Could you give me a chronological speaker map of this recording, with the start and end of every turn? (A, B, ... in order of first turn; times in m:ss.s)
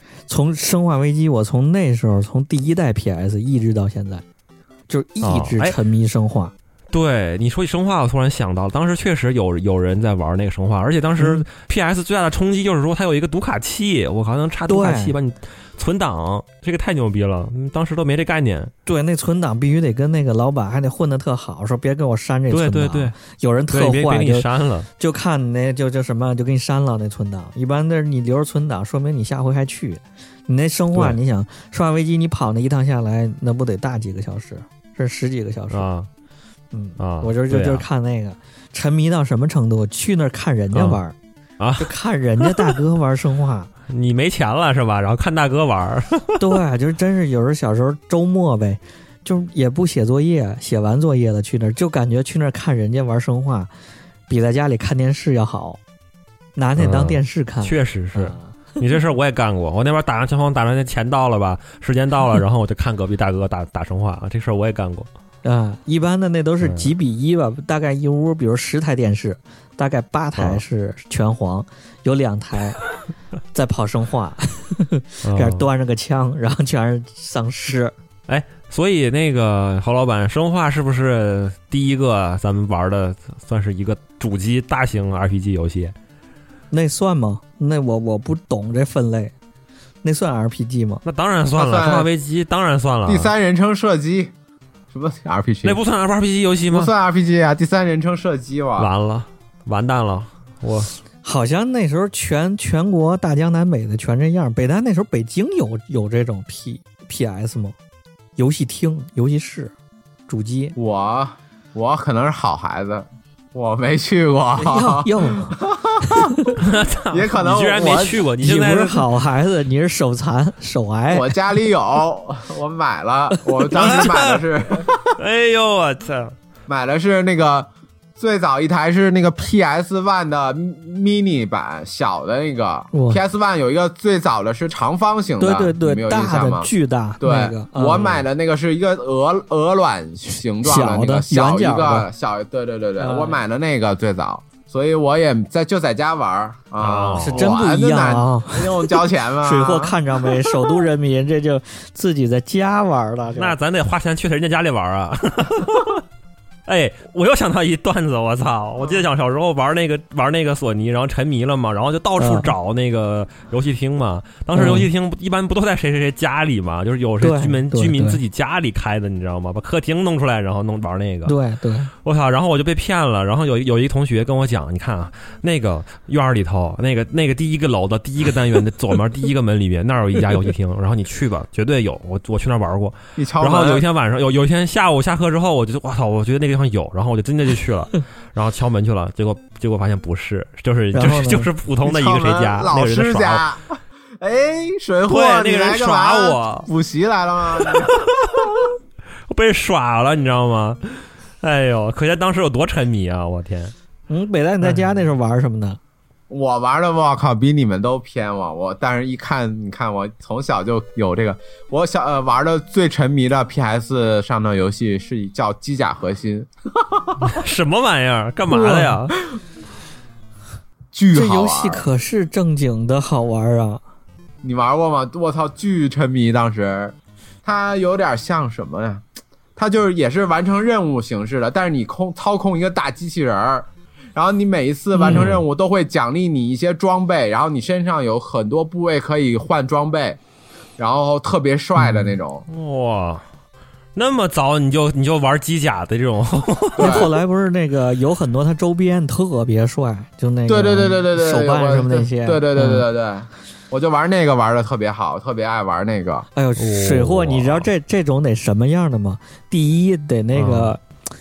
0:00.3-0:04.2 A
0:04.9-0:06.5 A
0:05.2-0:05.8 B
0:06.9-0:18.7 B
0:11.2-0:11.4 A
0:14.7-0:15.1 A
0:18.8-0:24.4 A
0:22.5-0:23.2 B
0:23.7-0:24.9 B
0:25.0-0:35.9 A
0:35.7-0:36.1 B
0:36.7-0:41.1 A
0:37.0-0:37.8 B
0:40.7-0:41.0 B
0:41.6-0:42.7 B
0:41.8-0:43.7 A
0:43.9-0:46.4 B
0:46.4-0:53.7 A
0:54.3-0:55.8 A
0:56.6-0:58.8 A
0:56.8-1:05.1 B
1:05.4-1:12.8 A
1:06.6-1:06.9 B
1:10.4-1:10.6 B
1:13.5-1:17.9 A
1:15.2-1:15.6 B
1:18.3-1:25.9 B
1:26.7-1:29.3 A
1:30.0-1:31.0 A
1:31.0-1:33.3 B
1:31.5-1:32.1 C
1:33.0-1:34.3 C
1:34.9-1:35.8 C
1:35.6-1:36.9 B
1:36.7-1:38.9 C
1:38.8-1:40.9 B
1:41.2-1:47.8 A
1:48.4-1:49.7 A
1:50.3-1:50.8 A
1:50.8-1:56.3 C
1:54.6-1:56.6 A
1:56.6-1:59.0 B
1:57.1-1:58.2 C
1:58.4-2:01.3 A
2:01.1-2:05.1 C
2:03.7-2:04.4 B
2:05.2-2:06.3 B
2:06.7-2:30.0 C
2:12.9-2:13.2 A
2:15.4-2:18.1 A
2:20.6-2:22.1 A
2:23.0-2:23.4 A
2:26.8-2:27.5 B
2:27.2-2:33.6 A
2:33.3-2:36.0 B
2:36.7-2:51.3 B
2:42.2-2:42.5 A
2:44.5-2:44.9 A
2:47.2-2:48.2 A
2:51.2-2:51.9 A
2:52.0-3:13.4 B
3:03.2-3:03.8 C
3:10.9-3:11.5 A
3:11.8-3:18.1 C
3:15.1-3:16.7 B
3:17.7-3:18.6 B
3:19.3-3:23.7 B
3:24.1-3:25.8 A
3:26.3-3:37.2 C
3:37.2-3:39.1 B
3:38.5-3:39.0 A
3:40.9-3:41.8 C
3:41.1-3:43.8 A
3:44.4-3:49.0 C
3:49.6-4:00.2 C
3:54.9-3:55.3 A
3:55.1-3:55.4 B
4:00.8-4:02.4 C
4:01.8-4:02.1 A
4:02.5-4:03.2 B
4:03.9-4:07.1 B
4:06.8-4:07.1 C
4:06.8-4:12.8 A
4:10.5-4:16.3 C
4:16.3-4:20.8 A
4:16.6-4:17.7 B
4:20.3-4:20.7 B